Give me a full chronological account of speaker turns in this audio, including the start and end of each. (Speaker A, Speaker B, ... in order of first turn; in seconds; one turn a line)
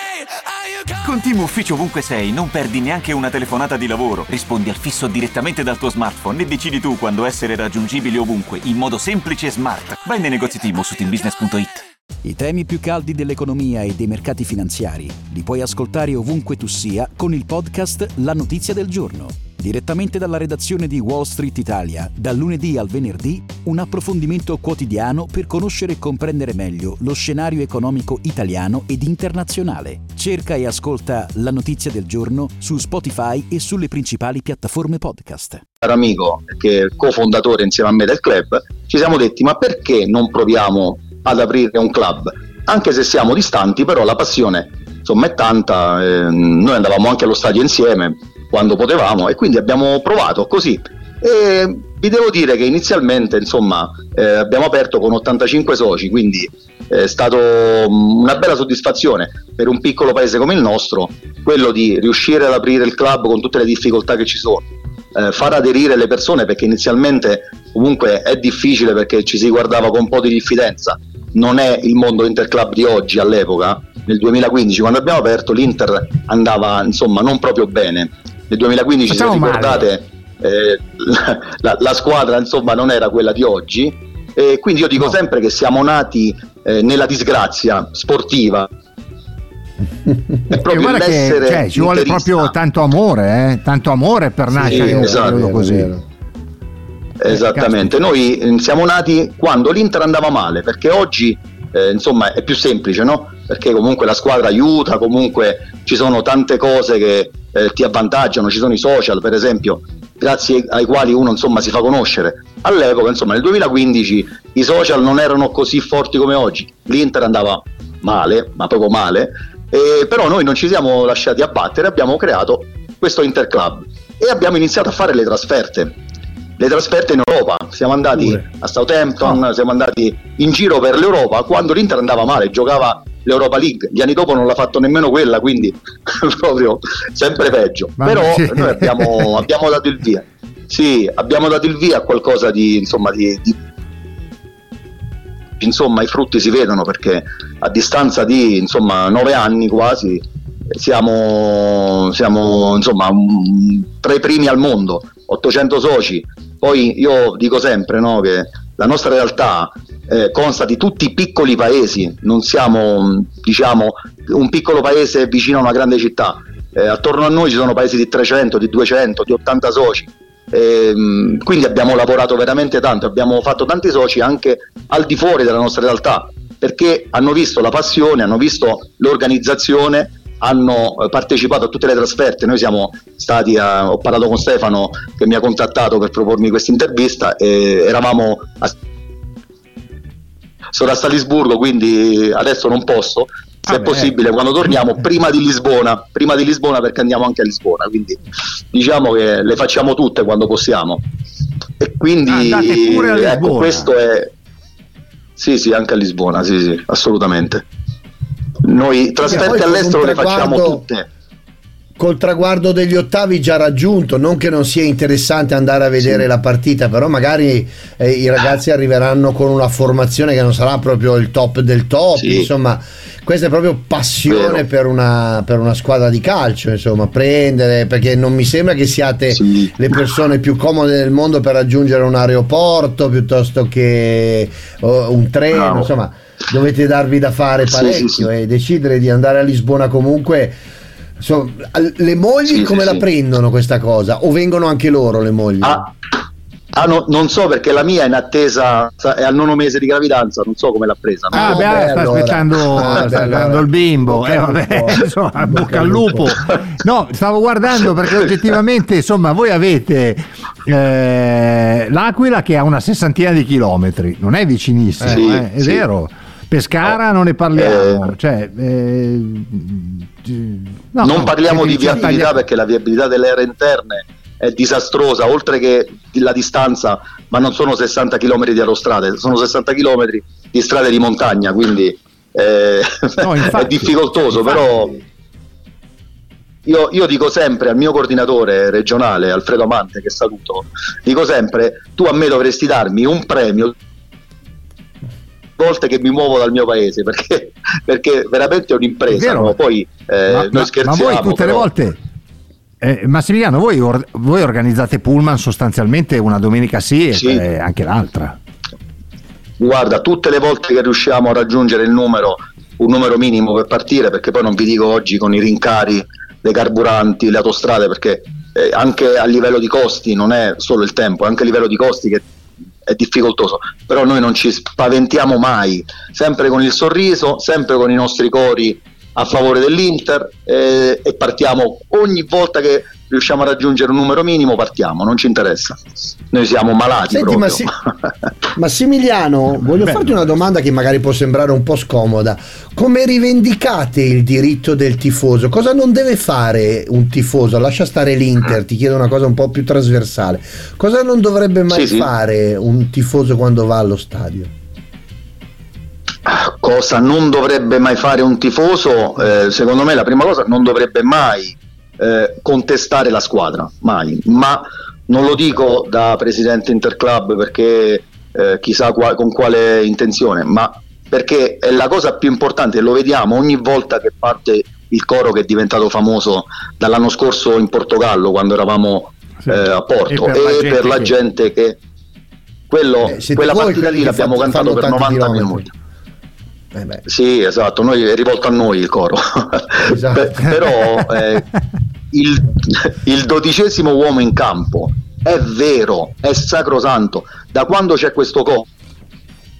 Speaker A: 1.0-11.8
Speaker B: 12.2-35.6
Speaker C: 35.8-88.7
Speaker D: 79.0-79.9
Speaker C: 90.5-92.5
Speaker D: 90.5-95.9
Speaker E: 94.5-96.0
Speaker C: 94.7-95.4
Speaker C: 97.2-125.9
Speaker D: 97.3-97.9
Speaker C: 126.6-143.6
Speaker D: 138.0-139.5
Speaker C: 145.6-188.8
Speaker C: 190.7-198.2
Speaker D: 193.7-194.1
Speaker C: 198.7-201.0
Speaker C: 201.8-204.3
Speaker D: 202.3-203.9
Speaker C: 205.4-207.6
Speaker C: 208.6-211.1
Speaker E: 209.3-210.8
Speaker E: 212.0-240.6
Speaker C: 216.0-216.3
Speaker C: 222.2-222.5
Speaker C: 224.3-224.6
Speaker C: 229.3-230.0
Speaker C: 235.5-235.9
Speaker C: 237.7-238.3
Speaker E: 241.2-245.9
Speaker C: 242.5-243.0
Speaker C: 245.6-245.9
Speaker C: 246.7-252.0
Speaker E: 251.3-256.4
Speaker D: 251.3-272.4
Speaker C: 265.1-265.8
Speaker C: 267.5-268.1
Speaker C: 271.0-284.9
Speaker D: 283.2-284.9
Speaker C: 286.6-293.8
Speaker C: 295.6-301.7
Speaker D: 299.1-299.6
Speaker D: 300.3-302.0
Speaker D: 302.8-308.4
Speaker C: 307.1-307.4
Speaker C: 309.6-322.2
Speaker C: 322.9-337.7
Speaker E: 337.1-337.7
Speaker E: 338.6-354.5
Speaker D: 339.7-340.3
Speaker C: 351.7-352.1
Speaker C: 356.3-381.8
Speaker D: 379.4-381.1
Speaker C: 382.7-385.7
Speaker E: 383.1-385.6
Speaker E: 386.8-387.0
Speaker C: 387.1-391.5
Speaker E: 389.9-390.4
Speaker C: 392.1-398.7